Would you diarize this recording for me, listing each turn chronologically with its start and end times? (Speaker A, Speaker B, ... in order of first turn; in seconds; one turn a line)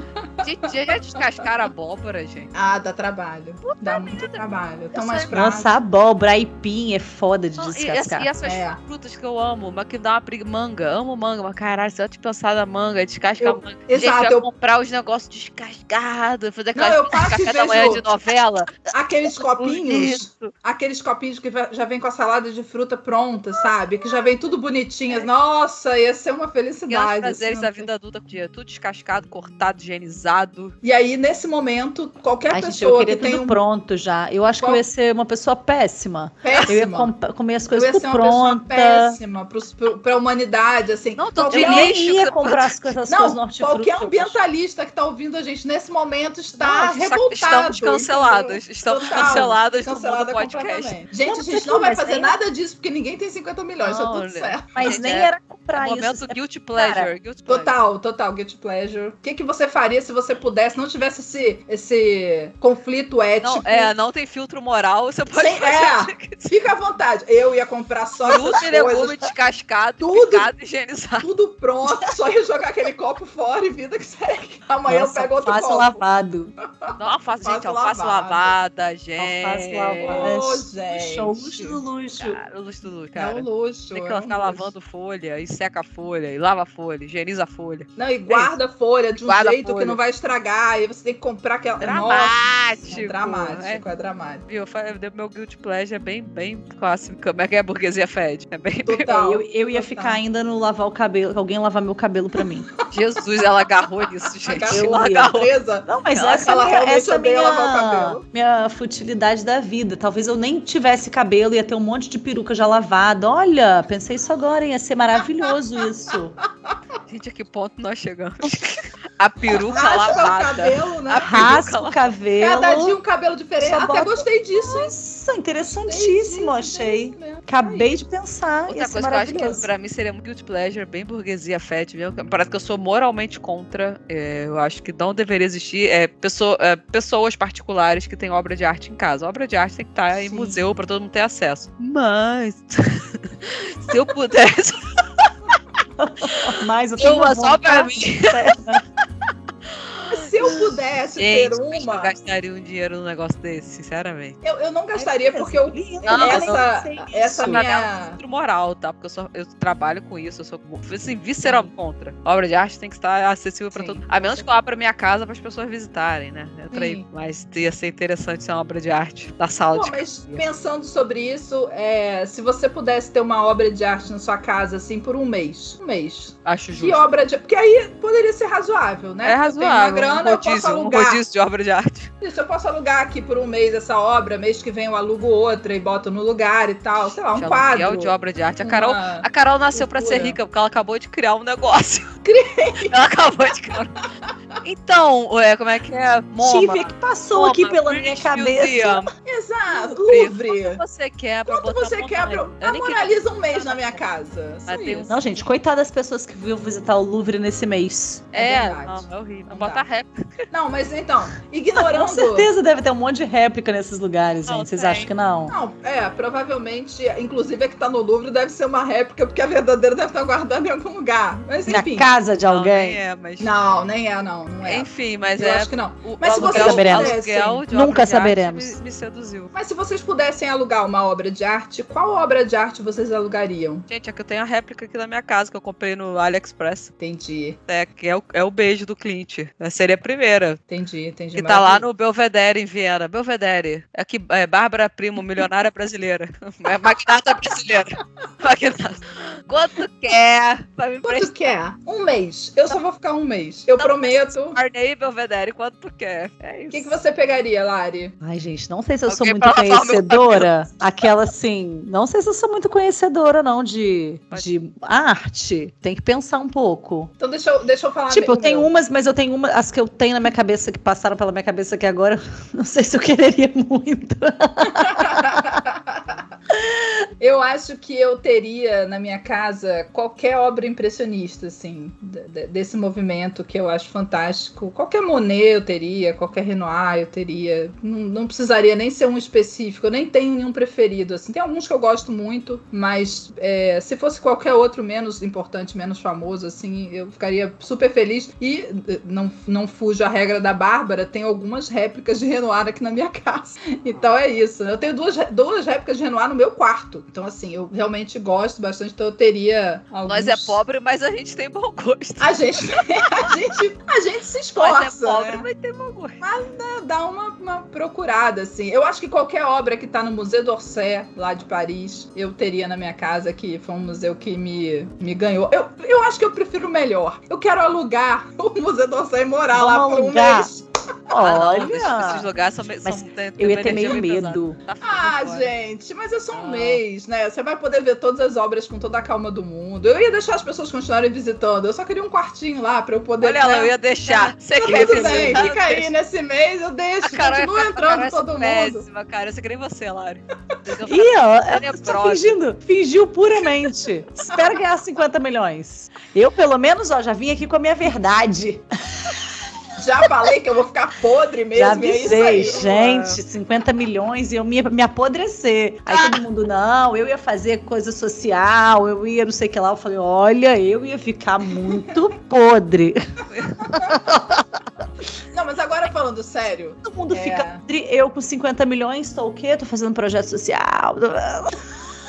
Speaker A: 0.4-2.5
Speaker B: 0.6-0.9
Speaker B: 2.5-5.8
Speaker A: 3.6-5.3
Speaker C: 5.3-8.3
Speaker A: 7.6-18.9
Speaker B: 8.4-8.8
Speaker B: 13.4-14.5
Speaker B: 16.7-18.2
Speaker B: 18.9-27.9
Speaker A: 19.6-20.5
Speaker A: 26.9-30.7
Speaker B: 30.8-33.6
Speaker C: 32.5-39.2
Speaker B: 36.4-37.1
Speaker B: 37.7-42.0
Speaker A: 41.2-42.9
Speaker C: 41.5-44.4
Speaker B: 43.1-55.0
Speaker A: 46.6-51.0
Speaker C: 51.2-52.3
Speaker A: 53.8-57.7
Speaker C: 54.7-57.1
Speaker B: 57.5-63.9
Speaker A: 63.4-66.5
Speaker B: 65.3-69.3
Speaker A: 68.3-71.3
Speaker B: 70.0-70.5
Speaker B: 71.2-76.0
Speaker C: 74.9-76.5
Speaker B: 76.8-78.5
Speaker A: 77.0-80.3
Speaker C: 79.2-82.4
Speaker B: 80.0-81.8
Speaker A: 82.2-88.5
Speaker B: 83.2-84.7
Speaker B: 88.0-94.4
Speaker A: 89.2-90.0
Speaker A: 91.8-93.8
Speaker A: 94.5-99.1
Speaker B: 98.8-100.2
Speaker C: 99.1-102.7
Speaker A: 102.9-105.5
Speaker B: 104.4-108.2
Speaker C: 104.7-116.4
Speaker A: 117.1-122.1
Speaker B: 119.5-121.6
Speaker C: 121.2-123.0
Speaker B: 122.4-124.9
Speaker C: 123.6-129.7
Speaker B: 125.7-128.0
Speaker A: 128.7-145.3
Speaker B: 140.1-140.7
Speaker C: 146.0-148.8
Speaker A: 147.0-148.5
Speaker A: 149.7-154.4
Speaker B: 150.1-152.1
Speaker B: 154.4-158.2
Speaker C: 154.9-157.6
Speaker A: 156.1-156.6
Speaker A: 157.4-170.4
Speaker B: 163.7-164.4
Speaker B: 166.7-167.0
Speaker B: 169.7-181.2
Speaker A: 176.4-177.0
Speaker A: 179.2-182.1
Speaker B: 182.2-188.1
Speaker A: 187.3-192.0
Speaker B: 188.6-190.4
Speaker B: 192.2-192.9
Speaker A: 192.9-193.9
Speaker A: 194.6-199.1
Speaker C: 196.4-199.0
Speaker B: 199.2-200.8
Speaker A: 199.7-204.0
Speaker B: 201.5-205.1
Speaker A: 204.7-205.3
Speaker C: 205.1-208.3
Speaker A: 208.3-210.5
Speaker B: 208.3-209.8
Speaker B: 210.5-212.5
Speaker C: 211.7-215.6
Speaker A: 214.5-215.1
Speaker B: 215.5-222.1
Speaker C: 221.7-223.0
Speaker A: 222.5-223.5
Speaker B: 223.4-227.6
Speaker A: 224.6-229.5
Speaker C: 226.3-227.2
Speaker C: 227.7-228.8
Speaker B: 229.5-233.8
Speaker A: 233.9-236.9
Speaker B: 237.0-237.6
Speaker A: 237.7-240.6
Speaker B: 240.7-241.8
Speaker A: 241.3-251.5
Speaker B: 251.0-254.6
Speaker A: 253.8-256.9
Speaker B: 256.7-258.1
Speaker C: 258.2-267.1
Speaker A: 259.1-260.5
Speaker B: 267.2-268.7
Speaker C: 268.1-275.6
Speaker B: 274.6-276.2
Speaker C: 276.5-276.9
Speaker B: 277.2-310.6
Speaker A: 310.1-312.4
Speaker B: 312.2-315.4
Speaker A: 314.6-316.2
Speaker B: 316.2-331.1
Speaker C: 329.5-330.5
Speaker C: 331.1-334.6
Speaker A: 331.2-335.5
Speaker B: 334.8-348.8
Speaker A: 336.3-336.8
Speaker A: 343.2-345.9
Speaker C: 344.6-345.5
Speaker A: 347.0-352.4
Speaker C: 350.9-358.6
Speaker B: 359.8-363.2
Speaker C: 361.5-373.0
Speaker B: 365.9-366.2
Speaker B: 371.7-371.9
Speaker A: 373.3-373.6
Speaker C: 373.7-374.4
Speaker B: 373.7-374.0
Speaker B: 375.3-377.6
Speaker C: 376.8-381.6